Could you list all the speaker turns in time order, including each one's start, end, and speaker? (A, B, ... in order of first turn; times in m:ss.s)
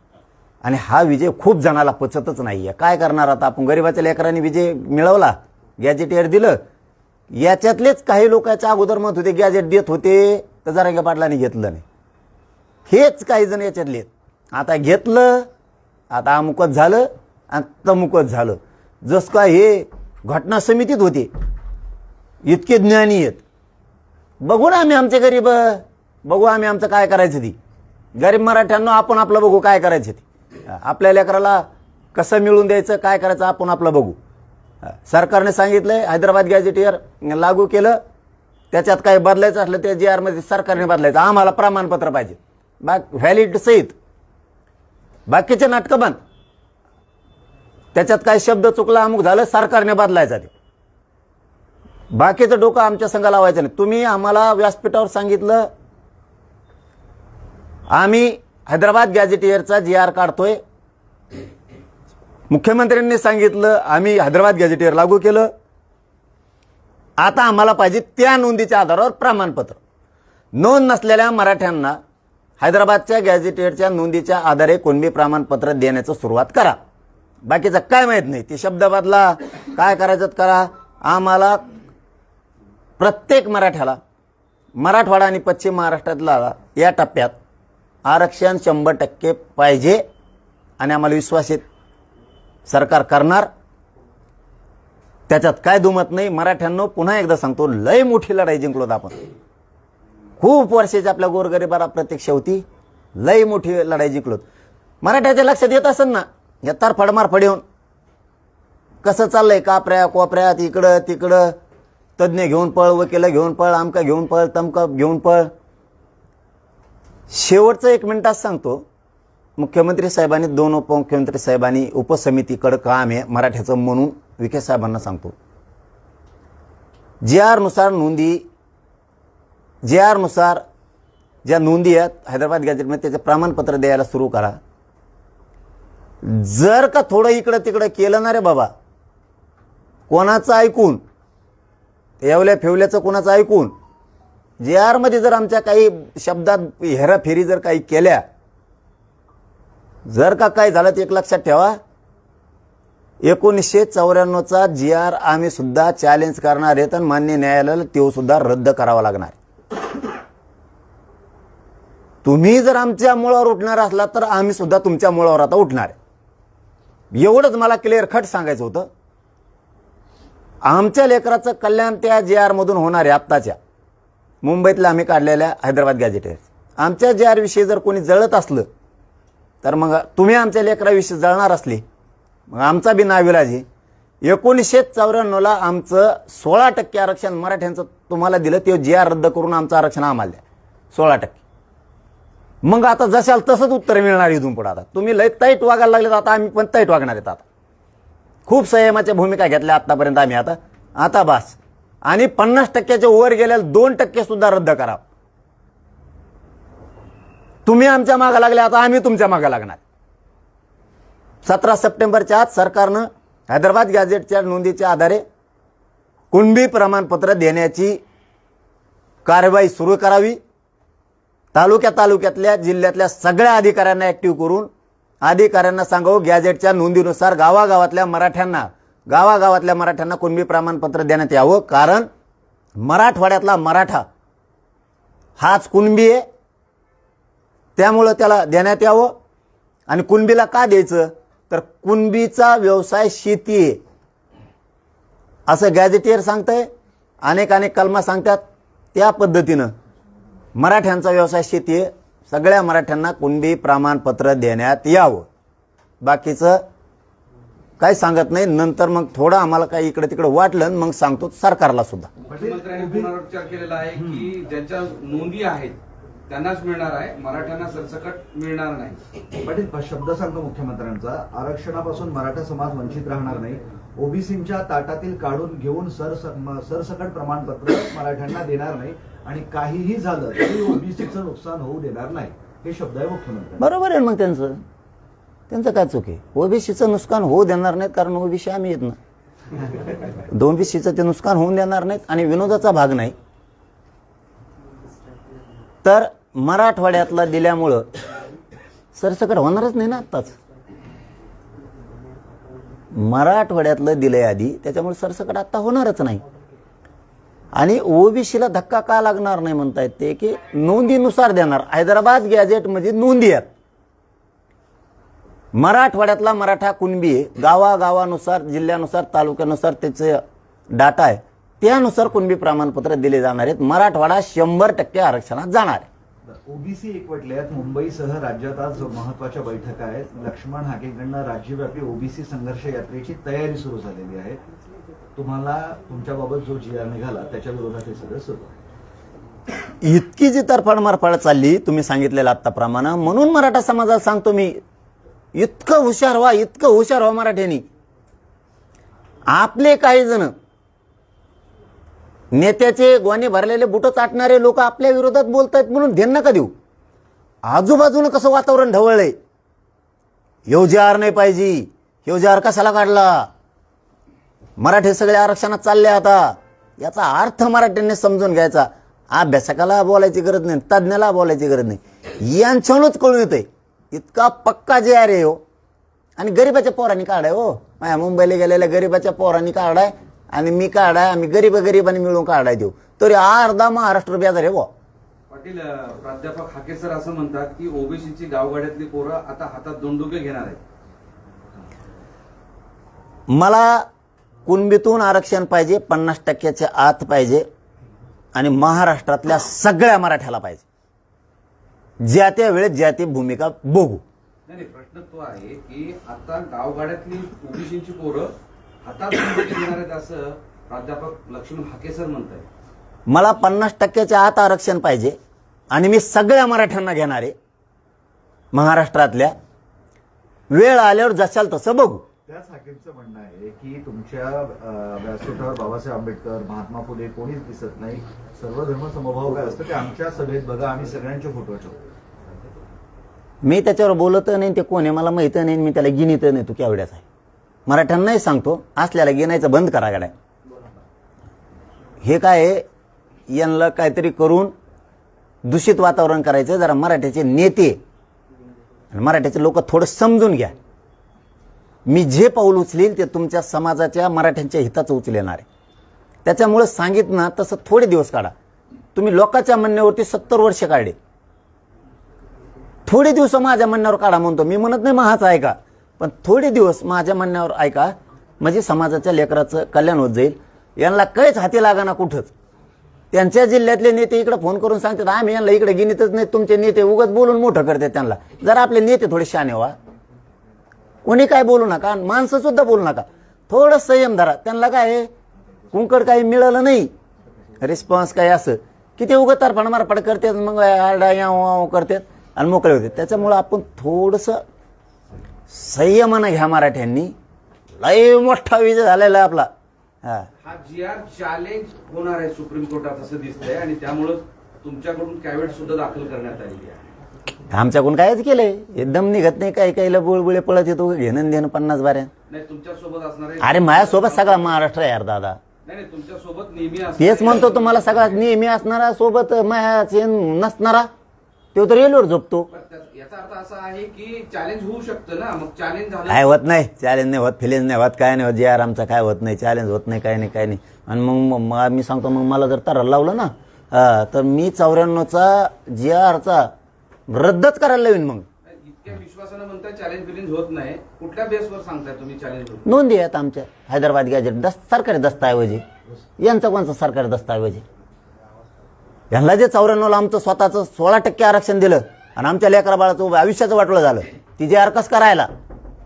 0:00.6-0:06.6 A
0:07.3-0:11.8 A
0:12.9-0:15.5 A
0:16.1-0:21.3 A
0:22.4-0:23.4 A
0:24.4-0:27.6 A
0:28.2-0:34.2 A
0:34.9-0:38.0 A
0:38.7-0:43.9 A
0:45.3-0:46.2 A
0:47.9-0:50.5 A
0:52.1-0:55.7 A
0:57.9-1:00.6 A
1:02.5-1:05.5 A
1:07.2-1:09.8 A
1:10.5-1:12.0 A
1:12.6-1:16.8 A
1:17.4-1:21.6 A
1:23.0-1:24.0 A
1:24.8-1:27.3 A
1:28.0-1:30.0 A
1:30.8-1:31.6 A
1:32.7-1:33.5 A
1:35.3-1:39.2 A
1:40.4-1:42.6 A
1:43.2-1:44.4 A
1:45.0-1:47.6 A
1:49.0-1:51.6 A
1:52.2-1:55.5 A
1:57.3-1:58.8 A
1:59.6-2:05.3 A
2:07.2-2:08.4 A
2:09.8-2:10.6 A
2:11.4-2:14.6 A
2:16.2-2:18.7 A
2:20.1-2:21.0 A
2:22.2-2:23.7 A
2:24.6-2:28.2 A
2:30.1-2:31.8 A
2:33.2-2:39.4 A
2:42.2-2:45.9 A
2:47.1-2:48.9 A
2:50.6-2:53.6 A
2:54.4-2:58.7 A
2:59.6-3:01.8 A
3:02.5-3:03.6 A
3:04.2-3:10.4 A
3:10.9-3:11.4 A
3:12.6-3:17.4 A
3:18.5-3:25.0 A
3:27.6-3:29.8 A
3:31.4-3:35.2 A
3:36.3-3:38.0 A
3:39.2-3:40.4 A
3:41.5-3:44.7 A
3:45.2-3:52.1 A
3:52.8-3:54.0 A
3:55.4-3:56.2 A
3:57.8-3:59.1 A
3:59.9-4:03.8 A
4:05.5-4:06.7 A
4:07.2-4:08.4 A
4:08.9-4:09.7 A
4:10.6-4:15.3 A
4:16.0-4:16.6 A
4:17.8-4:22.1 A
4:22.2-4:25.8 B
4:22.3-4:23.1 C
4:23.9-4:24.3 C
4:26.3-4:29.0 B
4:29.4-4:43.7 C
4:43.6-4:44.6 A
4:45.5-4:49.0 A
4:50.1-4:53.1 A
4:55.8-4:57.9 A
4:58.9-5:00.3 A
5:02.9-5:06.2 A
5:07.5-5:13.5 A
5:15.5-5:25.9 A
5:26.2-5:34.4 C
5:35.1-5:38.6 C
5:39.8-5:44.6 A
5:45.3-5:47.6 A
5:49.3-5:50.3 A
5:52.3-5:56.5 A
5:57.4-5:59.2 A
6:00.5-6:03.3 A
6:04.6-6:15.4 A
6:16.2-6:24.7 A
6:25.3-6:30.6 B
6:33.3-6:33.9 A
6:34.4-6:37.4 A
6:38.3-6:40.6 A
6:42.0-6:44.0 A
6:44.5-6:48.3 B
6:48.8-6:52.5 B
6:53.1-6:55.2 A
6:55.7-6:57.3 A
6:58.5-6:59.3 A
7:00.5-7:02.0 A
7:02.2-7:11.8 C
7:13.4-7:17.0 A
7:17.7-7:20.1 A
7:22.0-7:22.6 A
7:23.3-7:24.5 A
7:25.4-7:27.8 A
7:28.9-7:30.5 A
7:31.8-7:35.4 A
7:36.2-7:38.3 A
7:38.9-7:41.0 A
7:42.8-7:52.3 A
7:53.1-7:59.7 A
8:01.0-8:05.1 A
8:05.7-8:06.9 A
8:07.6-8:14.4 A
8:15.5-8:17.1 A
8:17.8-8:19.5 A
8:20.4-8:26.8 B
8:27.5-8:32.1 A
8:32.3-8:34.6 B
8:33.4-8:35.4 A
8:35.6-8:38.2 B
8:37.0-8:40.9 A
8:41.5-8:42.5 A
8:42.5-8:46.4 B
8:46.1-8:56.5 A
8:57.1-8:58.2 A
8:58.4-9:02.7 B
9:02.6-9:05.6 A
9:06.2-9:07.6 A
9:09.1-9:15.3 A